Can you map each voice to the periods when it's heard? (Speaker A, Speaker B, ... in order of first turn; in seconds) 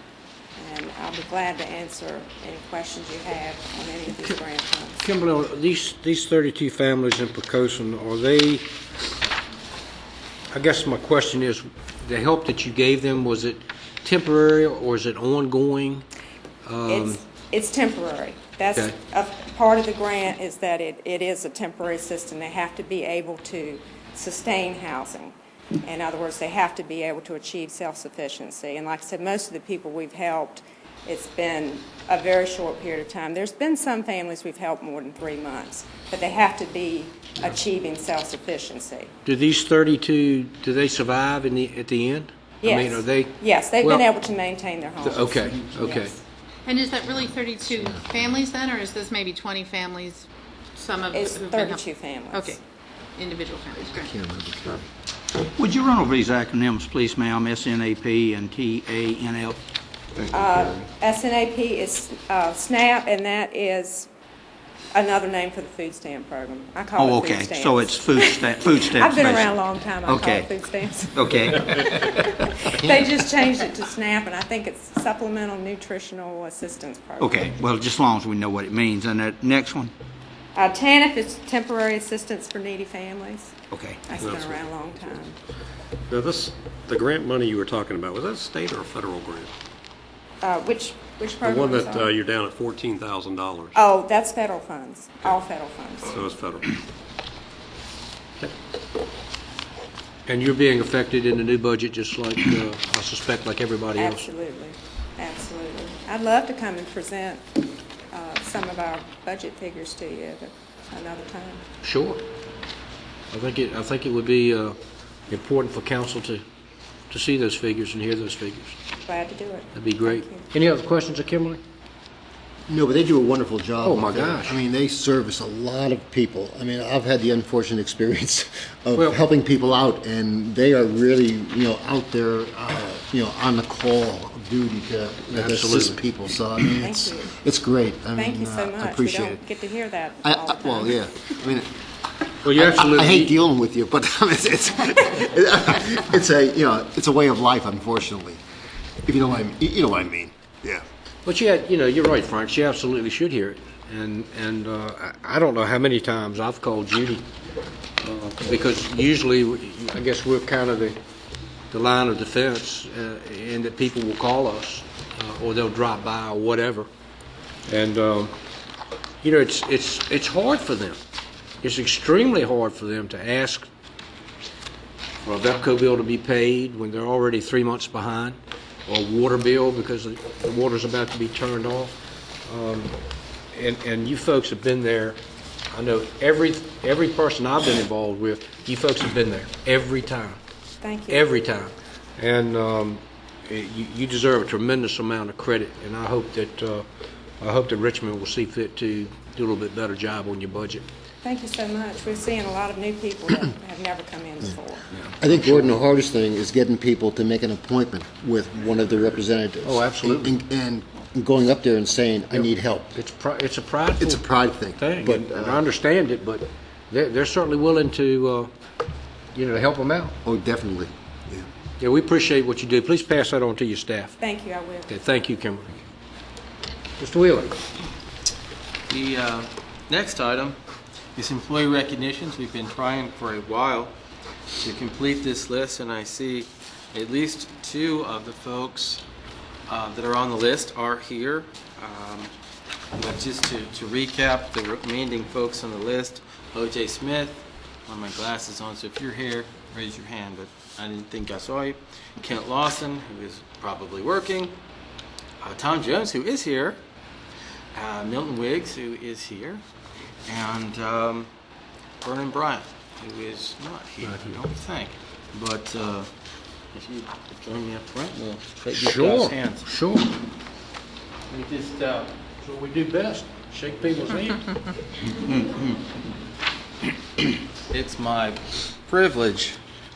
Speaker A: 0.6-5.0, 16.9-39.1, 42.6-46.1, 51.1-52.6, 60.3-64.1, 64.9-77.6, 80.5-85.4, 90.4-92.1, 93.7-96.2, 104.0-107.4, 108.1-111.6, 119.1-120.5, 136.8-137.3, 138.2-141.3, 190.8-191.2, 201.2-204.9, 224.2-224.9
Speaker B: 5.0-8.7, 10.5-16.1, 16.6-17.2, 39.2-44.1, 45.0-46.1, 100.3-104.3, 111.8-112.2, 113.3-114.8, 115.3-116.4, 117.1-118.8, 119.7-121.6, 123.8-124.6, 135.3-136.0, 142.4-143.3, 151.2-157.3, 158.0-161.0, 161.7-166.9, 167.7-168.3, 169.2-171.0, 171.6-173.7, 175.2-182.9, 183.5-185.2, 185.7-190.4, 191.1-196.8, 197.4-200.8, 204.9-205.7, 209.6-210.3, 212.3-214.2, 214.8-218.5, 219.3-220.1, 221.8-224.2, 224.9-225.8, 227.0-227.6, 264.0-264.4, 268.7-270.1, 272.4-274.5
Speaker C: 46.6-52.6, 53.1-54.1
Speaker D: 53.7-54.9, 72.8-73.1, 122.7-139.4, 140.2-141.7, 142.5-148.4, 149.1-150.8, 205.2-212.9, 214.0-215.6, 220.2-221.4
Speaker E: 55.4-59.6, 60.1-60.7, 67.0-72.0, 77.2-79.9, 83.7-84.1
Speaker F: 84.2-84.6, 86.1-89.5, 91.4-93.7, 96.1-96.7
Speaker G: 228.9-230.6, 231.2-233.9, 234.6-239.0, 239.7-242.3, 242.9-254.6, 255.4-256.8, 257.7-259.6, 260.2-261.3, 262.0-266.1, 266.7-269.7, 271.3-272.1, 277.7-279.6